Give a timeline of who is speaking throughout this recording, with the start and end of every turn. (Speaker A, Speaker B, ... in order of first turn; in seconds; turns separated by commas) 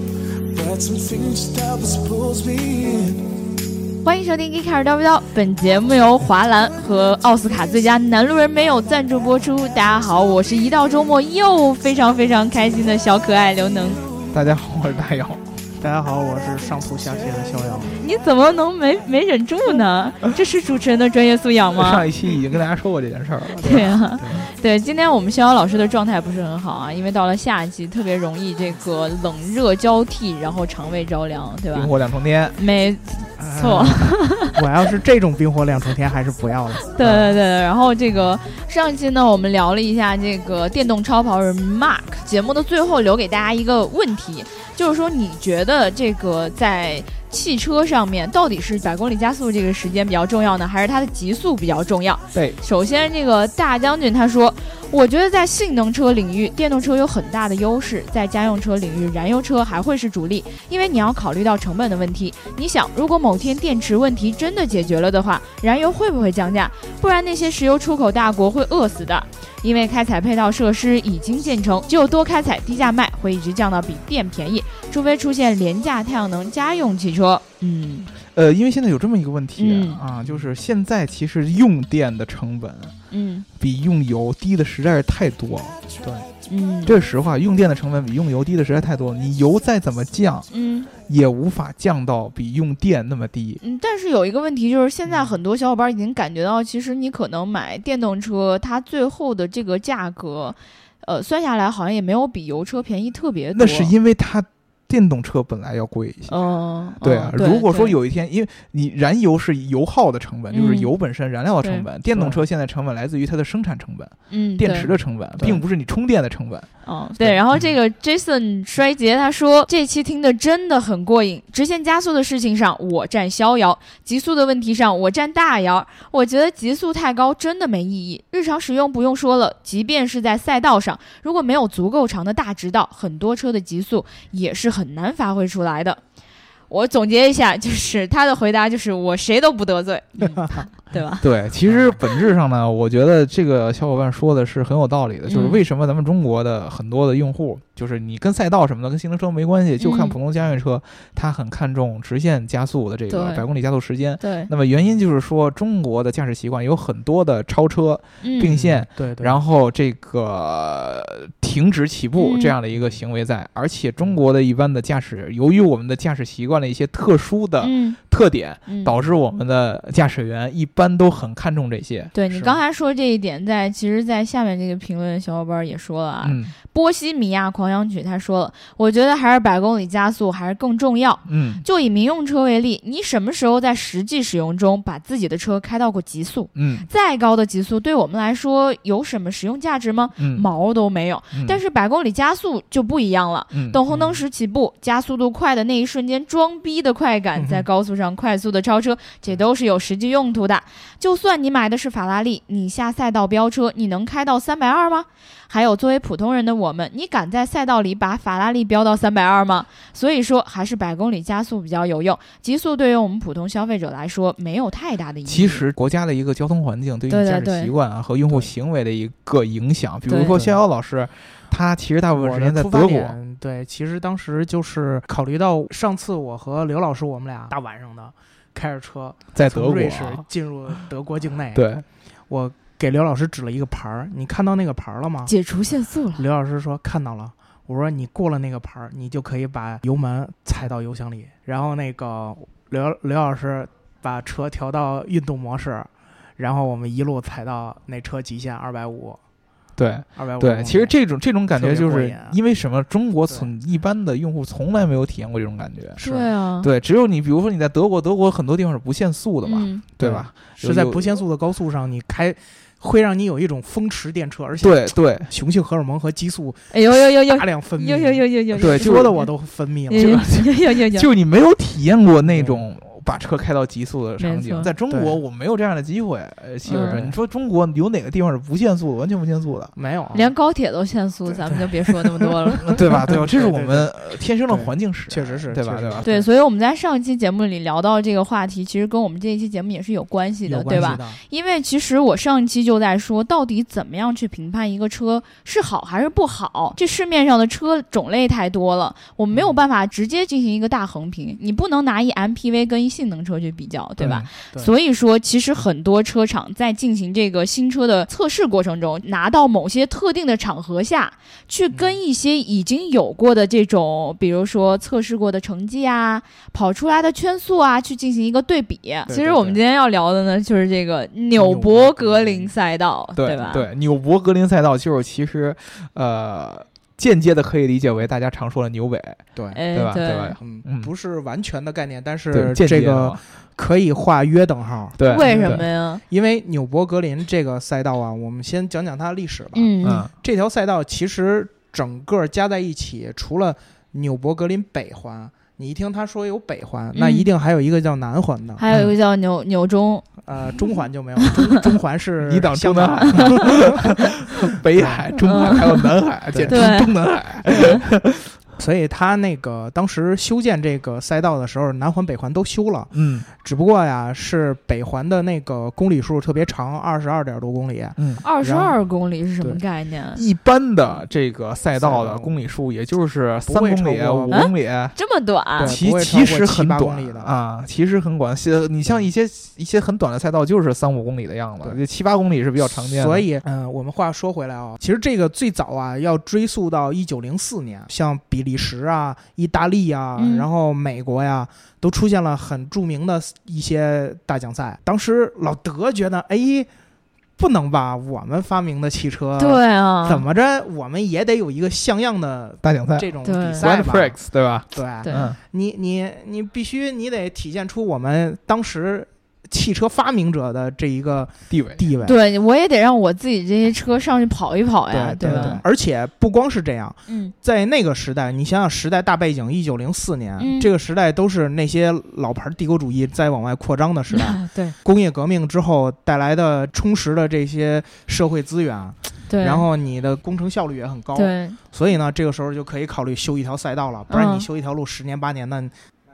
Speaker A: 0.8-2.8, Speaker B: 4.0-14.0, Speaker C: 14.3-15.4, Speaker D: 15.8-17.9, Speaker B: 18.0-22.1, Speaker C: 21.7-24.4, Speaker B: 23.6-31.9, Speaker C: 31.7-32.6, Speaker B: 32.6-34.6, Speaker D: 33.4-37.2, Speaker B: 36.8-78.1, Speaker C: 78.3-82.9, Speaker B: 79.6-80.0, Speaker D: 80.2-80.5, Speaker B: 83.1-83.5, Speaker C: 83.6-85.8, Speaker D: 86.0-86.3, Speaker B: 86.5-87.0, Speaker C: 86.8-90.5, Speaker B: 90.5-90.9, Speaker C: 91.0-93.6, Speaker B: 93.6-103.9, Speaker D: 95.1-95.3, Speaker C: 103.5-106.4, Speaker B: 106.3-107.9, Speaker C: 107.0-116.7, Speaker B: 110.5-110.9, Speaker B: 111.6-111.8, Speaker D: 112.1-112.4, Speaker B: 114.3-114.9, Speaker D: 114.8-115.6, Speaker B: 116.8-136.0, Speaker B: 136.7-141.3, Speaker D: 140.2-140.6, Speaker C: 141.2-172.1, Speaker D: 141.6-142.0, Speaker B: 145.3-145.6, Speaker B: 149.8-150.1, Speaker B: 153.1-153.4, Speaker B: 154.2-154.5, Speaker B: 158.2-158.5, Speaker D: 158.4-159.4, Speaker B: 162.2-162.5, Speaker B: 167.6-168.0, Speaker B: 168.7-168.9, Speaker B: 172.1-215.6, Speaker C: 176.2-176.5, Speaker C: 181.3-181.6, Speaker C: 186.5-186.9, Speaker C: 190.2-190.4, Speaker C: 191.3-191.6, Speaker C: 193.5-193.8, Speaker D: 193.9-194.2, Speaker D: 197.3-197.7, Speaker C: 215.3-223.2, Speaker B: 217.1-217.7, Speaker B: 220.1-220.4, Speaker D: 220.3-220.6, Speaker D: 222.1-231.7, Speaker C: 229.3-230.2, Speaker C: 231.5-231.8, Speaker D: 232.3-235.3, Speaker B: 235.3-236.2, Speaker D: 236.2-249.2, Speaker C: 249.8-256.0, Speaker D: 250.2-250.9, Speaker D: 251.6-252.4, Speaker B: 256.0-256.7, Speaker D: 256.0-256.3, Speaker C: 256.6-261.1, Speaker B: 259.4-259.8, Speaker D: 260.0-270.2, Speaker C: 264.6-265.3, Speaker B: 266.7-269.3, Speaker C: 268.6-269.1, Speaker B: 269.9-271.1, Speaker C: 269.9-279.7, Speaker D: 272.2-272.6, Speaker B: 274.2-274.7, Speaker D: 274.9-275.2, Speaker B: 276.7-277.0, Speaker D: 276.7-277.1, Speaker D: 279.8-280.3, Speaker B: 280.1-282.8, Speaker D: 281.3-281.7, Speaker C: 282.7-286.0, Speaker D: 282.9-283.9, Speaker D: 284.5-286.3, Speaker B: 286.0-323.6, Speaker D: 290.4-291.2, Speaker C: 290.7-291.0, Speaker D: 299.3-299.6, Speaker C: 304.0-304.3, Speaker D: 311.7-312.0, Speaker D: 319.1-319.6, Speaker D: 321.4-322.5, Speaker C: 323.2-330.9, Speaker D: 329.4-329.6, Speaker B: 329.5-330.4, Speaker D: 330.4-348.6, Speaker C: 332.3-333.2, Speaker C: 335.0-335.6, Speaker B: 335.1-336.0, Speaker B: 339.5-340.1, Speaker C: 339.8-340.1, Speaker B: 346.9-347.3, Speaker B: 348.6-350.1, Speaker D: 350.2-353.9, Speaker B: 351.2-351.6, Speaker C: 352.2-358.3, Speaker B: 353.1-353.5, Speaker D: 354.8-355.0, Speaker B: 355.2-355.9, Speaker D: 356.3-356.6, Speaker B: 356.5-356.9, Speaker B: 357.5-357.8, Speaker D: 358.6-368.7, Speaker C: 362.9-363.2, Speaker C: 368.0-368.2, Speaker B: 368.2-370.2, Speaker C: 370.1-374.9, Speaker D: 371.8-372.3, Speaker D: 373.4-374.4, Speaker B: 374.3-375.7, Speaker D: 375.6-377.3, Speaker C: 375.6-383.3, Speaker D: 382.9-396.7, Speaker B: 390.2-390.4, Speaker D: 397.4-404.2, Speaker B: 399.4-400.2, Speaker C: 402.6-405.4, Speaker B: 403.2-403.6, Speaker D: 404.7-412.2, Speaker B: 405.0-405.3, Speaker C: 411.5-411.9, Speaker B: 412.0-415.6, Speaker D: 414.9-435.7, Speaker C: 415.2-415.6, Speaker B: 417.1-417.3, Speaker B: 420.4-420.7, Speaker B: 424.1-424.7, Speaker B: 429.3-429.6, Speaker B: 431.1-431.6, Speaker B: 434.1-434.4